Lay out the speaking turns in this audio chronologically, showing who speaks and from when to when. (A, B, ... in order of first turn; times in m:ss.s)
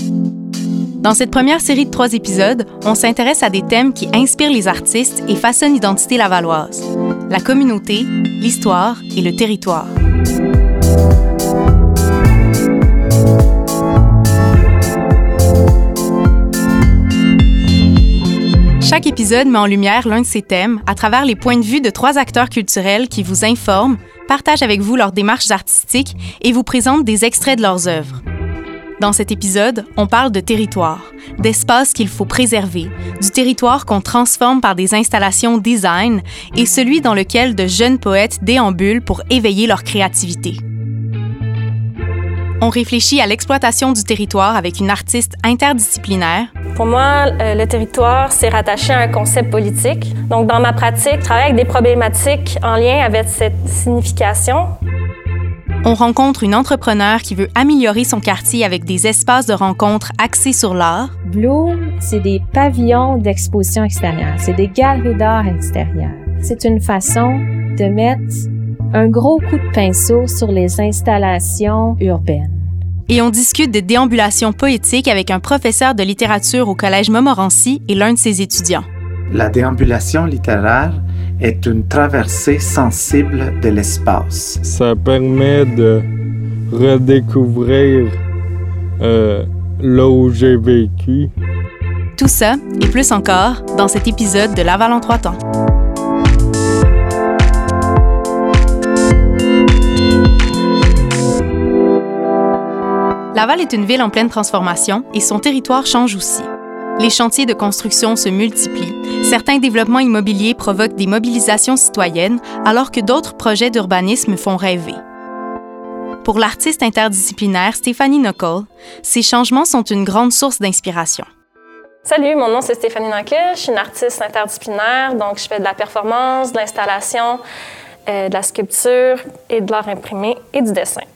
0:01.0-0:09.9 A
0:18.8-0:28.2 A
0:29.0-0:40.6 A
0:42.6-0:46.5 A
0:46.7-0:54.7 B
0:55.8-1:01.1 A
1:01.2-1:12.8 C
1:13.1-1:18.9 A
1:19.3-1:24.6 D
1:24.6-1:26.0 E
1:26.7-1:28.2 E
1:29.0-1:31.3 E
1:32.2-1:35.4 A
1:43.3-1:55.0 A
1:56.2-2:01.3 A
2:02.0-2:07.4 B
2:08.1-2:11.0 B